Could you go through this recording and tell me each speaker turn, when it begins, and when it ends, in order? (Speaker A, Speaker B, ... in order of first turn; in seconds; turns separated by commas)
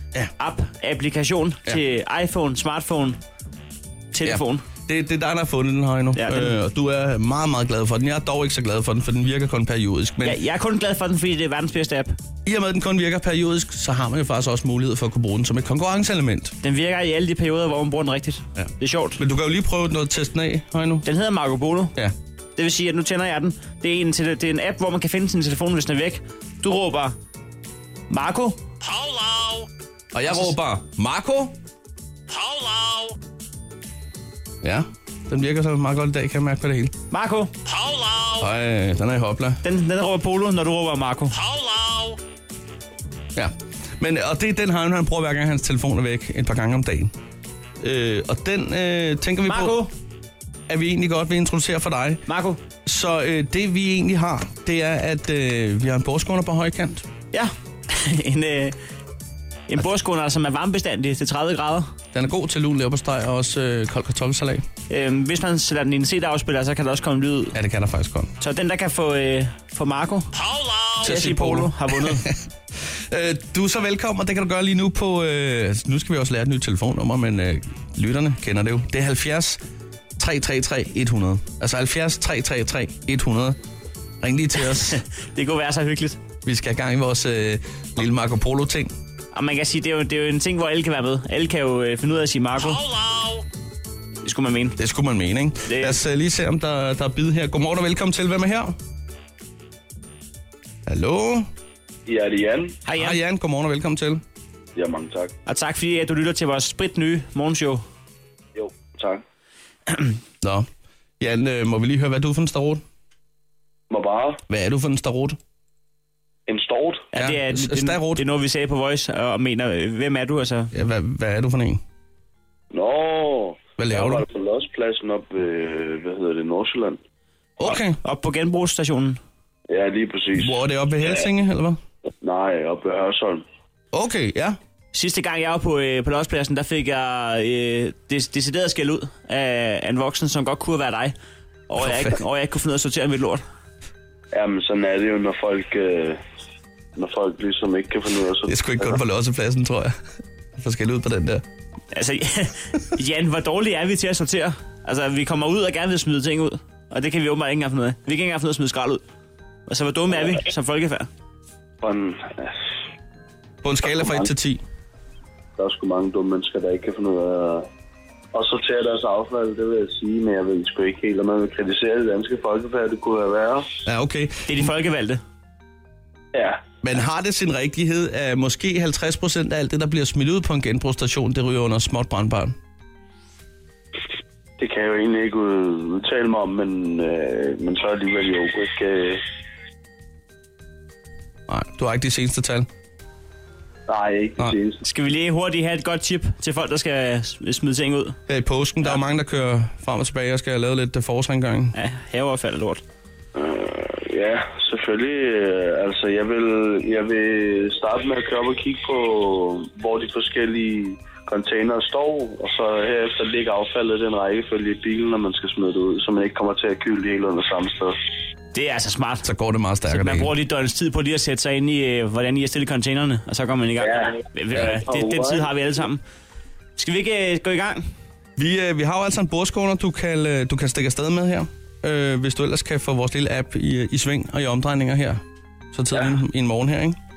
Speaker A: 0.4-3.2, Speaker A: 4.1-4.6, Speaker B: 4.2-10.4, Speaker A: 6.2-6.5, Speaker A: 10.2-12.2, Speaker B: 12.5-16.6, Speaker A: 16.6-19.2, Speaker B: 18.6-21.1, Speaker A: 21.1-21.9, Speaker A: 22.6-27.2, Speaker A: 28.1-28.6, Speaker B: 30.1-31.5, Speaker A: 30.3-30.5, Speaker B: 34.6-36.9, Speaker A: 37.1-37.5, Speaker B: 38.4-39.6, Speaker A: 39.6-41.4, Speaker B: 43.4-47.1, Speaker B: 47.8-49.8, Speaker A: 49.5-49.9, Speaker B: 50.7-52.2, Speaker A: 52.3-52.6, Speaker B: 52.9-57.0, Speaker A: 57.3-58.8, Speaker A: 59.7-61.9, Speaker B: 62.1-64.7, Speaker A: 64.9-67.5, Speaker B: 67.5-68.3, Speaker A: 68.4-70.3, Speaker A: 71.0-72.2, Speaker B: 71.0-72.4, Speaker B: 73.1-79.6, Speaker B: 80.2-83.6, Speaker B: 84.2-85.0, Speaker A: 84.6-86.2, Speaker B: 86.5-88.9, Speaker A: 89.3-92.8, Speaker A: 94.2-94.8, Speaker B: 94.8-98.8, Speaker A: 95.7-96.0, Speaker B: 100.9-101.5, Speaker C: 102.1-102.8, Speaker A: 102.8-103.2, Speaker B: 102.9-104.2, Speaker C: 104.8-105.3, Speaker A: 105.5-107.8, Speaker C: 108.6-109.2, Speaker B: 110.4-110.7, Speaker B: 111.2-112.8, Speaker C: 113.9-114.4, Speaker B: 114.5-115.4, Speaker C: 116.5-117.1, Speaker A: 117.1-120.7, Speaker B: 117.1-118.2, Speaker B: 120.7-121.8, Speaker C: 122.7-127.0, Speaker B: 123.8-124.3, Speaker B: 127.6-128.0, Speaker A: 128.0-129.2, Speaker C: 129.7-131.3, Speaker B: 130.4-131.8, Speaker C: 132.2-133.4, Speaker B: 133.9-134.6, Speaker A: 134.9-141.2, Speaker A: 141.7-143.4, Speaker B: 141.8-142.2, Speaker C: 144.3-146.2, Speaker C: 147.0-149.0, Speaker B: 148.5-149.9, Speaker B: 150.6-151.4, Speaker A: 151.9-159.0, Speaker A: 159.7-161.1, Speaker C: 161.8-162.5, Speaker B: 163.6-164.6, Speaker C: 163.8-164.3, Speaker C: 165.6-167.7, Speaker C: 168.3-173.7, Speaker B: 173.9-174.7, Speaker A: 174.5-175.2, Speaker C: 176.3-176.7, Speaker B: 176.8-182.6, Speaker C: 184.6-189.2, Speaker B: 191.5-192.7, Speaker C: 193.9-194.8, Speaker A: 194.8-198.2, Speaker B: 198.3-201.7, Speaker A: 201.7-202.8, Speaker C: 203.3-218.0, Speaker A: 218.5-219.3, Speaker B: 219.2-220.3, Speaker A: 219.9-226.0, Speaker C: 223.8-224.1, Speaker C: 224.9-225.5, Speaker A: 226.8-227.9, Speaker B: 228.4-235.2, Speaker B: 235.7-237.0